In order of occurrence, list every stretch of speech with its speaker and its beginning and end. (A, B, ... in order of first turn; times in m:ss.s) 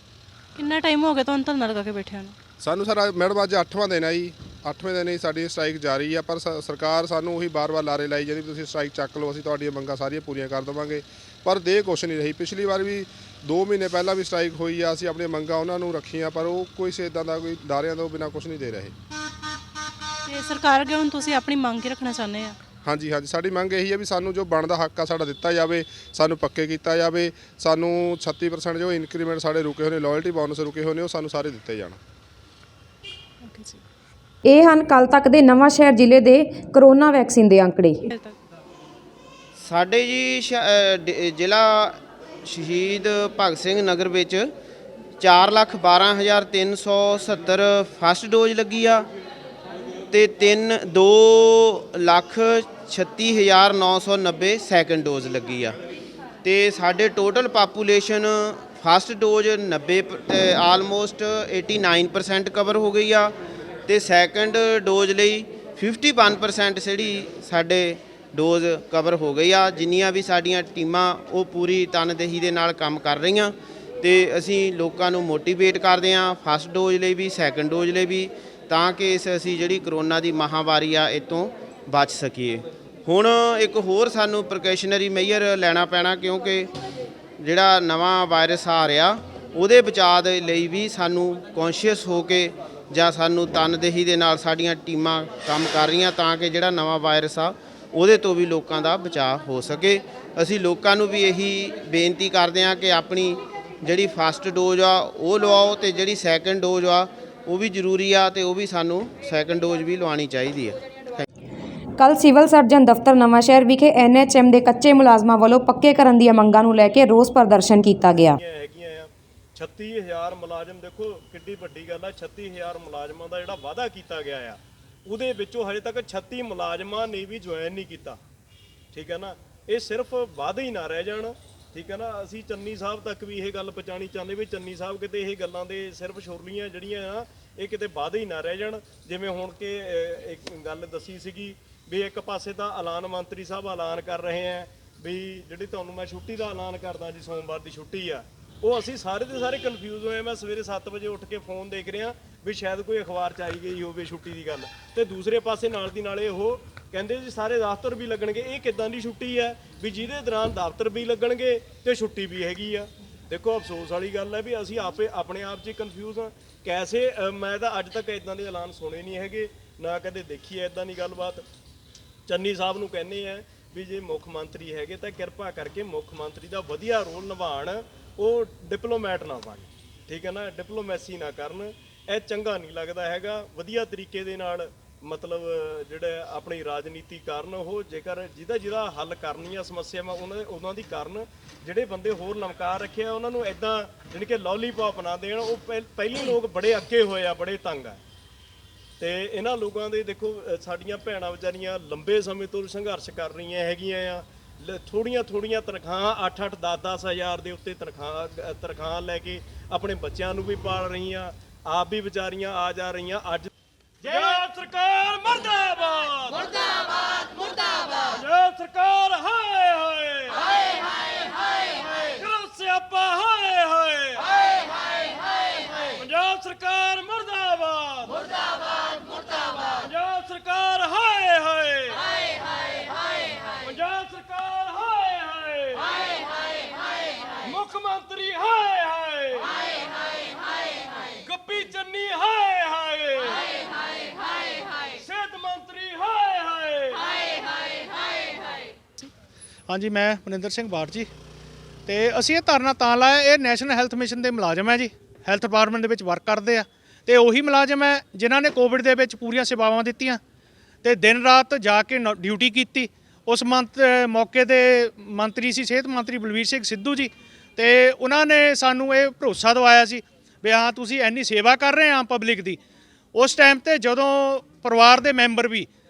0:00.6-0:02.4 A
0:02.6-0:18.9 B
0:20.2-0:22.6 A
0:22.8-0:32.0 B
0:33.4-0:33.8 A
0:34.4-0:38.0 C
0:38.1-0:38.4 A
0:39.6-0:44.5 D
0:45.2-0:49.1 D
0:50.1-0:55.8 D
0:56.4-1:03.4 D
1:03.9-1:26.7 D
1:27.4-1:51.2 D
1:52.0-1:58.4 C
1:58.3-2:08.2 E
2:08.9-2:51.4 E
2:52.3-3:18.0 E
3:19.0-3:33.5 E
3:34.0-3:36.5 E
3:38.1-3:40.4 E
3:42.0-3:44.3 E
3:45.9-3:48.2 E
3:49.8-3:52.0 E
3:53.6-3:56.0 E
3:57.4-3:59.5 E
4:01.2-4:03.5 E
4:05.0-4:07.1 E
4:09.7-4:11.1 F
4:11.9-4:20.2 F
4:20.8-4:32.6 F
4:33.2-4:35.7 F